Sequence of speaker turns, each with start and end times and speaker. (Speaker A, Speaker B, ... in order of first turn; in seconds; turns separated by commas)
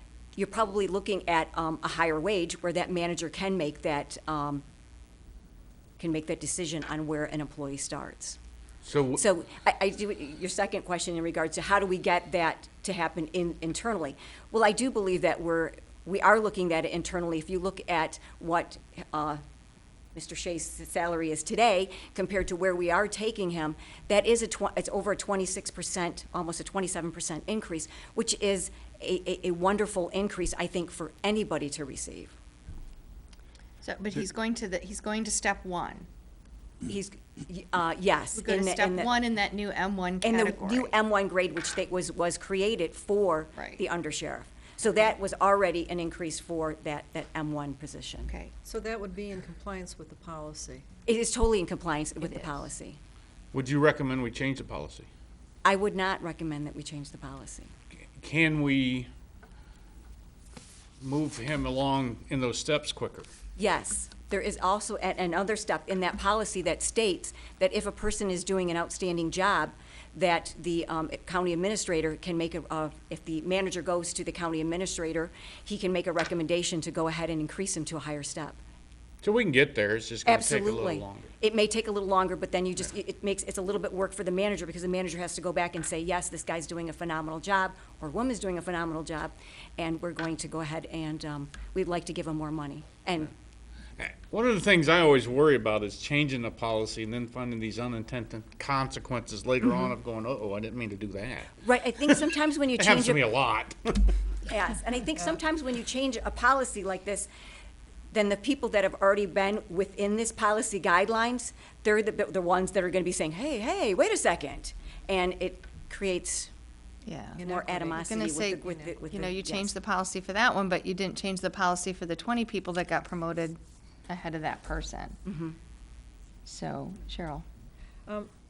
Speaker A: 0.3-4.6, Speaker A: 6.0-8.4, Speaker B: 8.8-9.2, Speaker A: 9.2-19.4, Speaker A: 20.1-32.3, Speaker C: 33.8-36.1, Speaker A: 36.9-39.1, Speaker C: 38.4-40.9, Speaker A: 40.2-48.3, Speaker C: 43.6-43.8, Speaker C: 48.3-48.5, Speaker D: 48.6-50.9, Speaker A: 51.0-53.0, Speaker B: 53.5-55.1, Speaker A: 55.6-57.7, Speaker B: 58.2-59.1, Speaker B: 61.0-63.3, Speaker A: 63.6-78.6, Speaker B: 79.2-81.3, Speaker A: 80.2-93.3, Speaker B: 94.0-101.6, Speaker A: 101.6-103.2, Speaker B: 102.8-104.1, Speaker A: 104.5-107.3, Speaker A: 108.1-116.5, Speaker C: 117.0-117.4, Speaker D: 117.3-118.9, Speaker A: 117.4-119.7, Speaker C: 118.0-125.2, Speaker A: 125.2-125.5, Speaker C: 126.5-127.4